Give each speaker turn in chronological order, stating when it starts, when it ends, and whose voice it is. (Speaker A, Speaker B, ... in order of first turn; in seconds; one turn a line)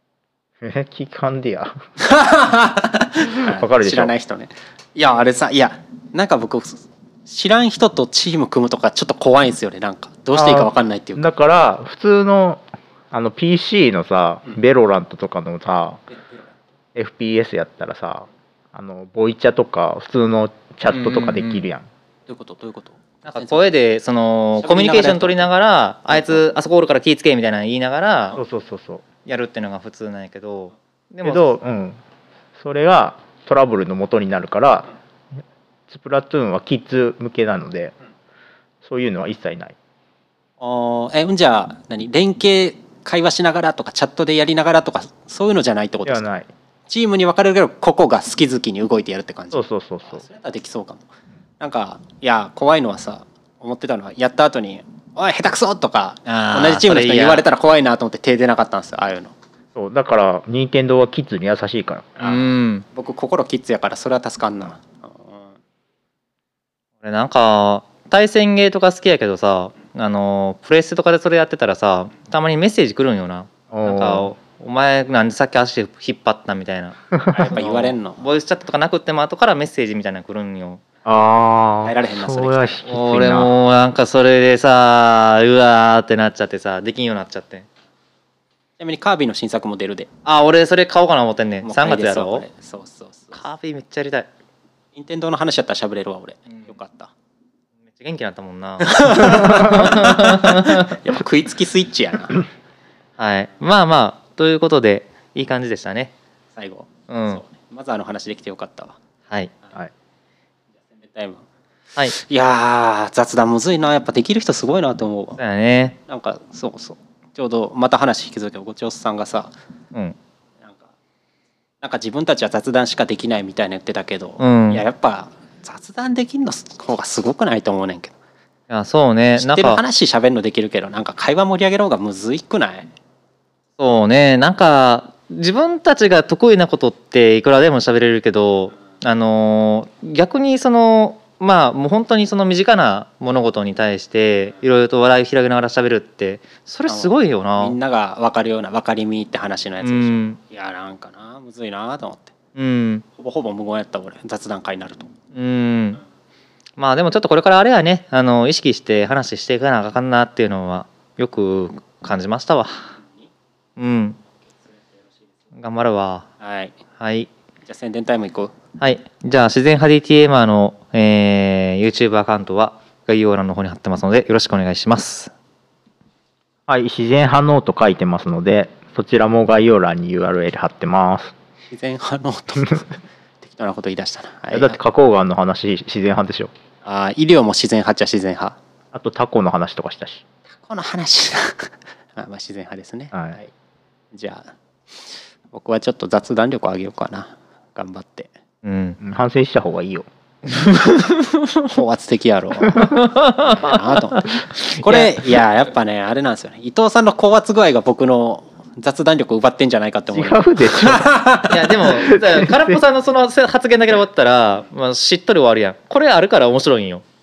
Speaker A: 0.6-1.7
Speaker B: 2.0-11.3
Speaker A: 3.3-4.1
Speaker A: 10.3-16.0
Speaker B: 16.1-16.5
Speaker A: 16.9-21.9
Speaker C: 20.9-21.6
Speaker B: 22.3-23.8
Speaker C: 23.2-28.4
Speaker B: 24.6-25.4
Speaker B: 26.1-26.4
Speaker A: 28.3-29.0
Speaker C: 29.2-31.5
Speaker A: 31.2-32.0
Speaker A: 32.5-34.9
Speaker A: 35.9-37.9
Speaker A: 38.8-39.8
Speaker B: 40.6-46.2
Speaker A: 46.0-46.5
Speaker B: 46.9-51.0
Speaker A: 49.5-50.2
Speaker B: 51.6-59.3
Speaker C: 56.2-57.5
Speaker A: 59.7-62.2
Speaker C: 62.2-62.8
Speaker B: 62.2-65.5
Speaker C: 67.0-80.8
Speaker A: 73.7-74.3
Speaker B: 77.3-78.3
Speaker A: 81.0-83.5
Speaker B: 81.8-82.9
Speaker C: 82.9-87.7
Speaker B: 88.8-90.1
Speaker C: 90.2-92.4
Speaker B: 91.6-93.4
Speaker C: 93.3-94.3
Speaker B: 94.9-97.1
Speaker C: 97.9-101.0
Speaker B: 98.8-102.4
Speaker C: 103.2-106.1
Speaker B: 106.5-109.0
Speaker C: 107.1-107.4
Speaker B: 110.8-111.5
Speaker B: 112.0-115.4
Speaker C: 115.4-116.0
Speaker B: 116.1-119.5
Speaker B: 121.8-128.1
Speaker C: 124.4-124.8
Speaker C: 128.7-129.8
Speaker B: 129.4-132.9
Speaker C: 133.8-147.8
Speaker B: 146.9-152.3
Speaker C: 149.8-150.4
Speaker C: 152.6-153.0
Speaker B: 153.2-155.1
Speaker C: 155.3-156.0
Speaker C: 156.8-162.9
Speaker C: 163.8-164.2
Speaker B: 164.7-165.1
Speaker C: 165.5-166.3
Speaker B: 166.4-166.8
Speaker C: 167.0-167.3
Speaker B: 167.7-168.5
Speaker C: 168.8-175.3
Speaker A: 176.7-181.3
Speaker B: 181.7-184.8
Speaker A: 184.5-186.5
Speaker B: 186.8-188.6
Speaker A: 188.9-190.2
Speaker B: 190.5-193.5
Speaker B: 194.1-198.3
Speaker C: 198.6-199.0
Speaker A: 199.0-200.1
Speaker C: 200.5-201.7
Speaker B: 201.7-211.7
Speaker C: 202.8-205.3
Speaker A: 210.1-211.2
Speaker C: 211.5-217.0
Speaker A: 211.8-212.8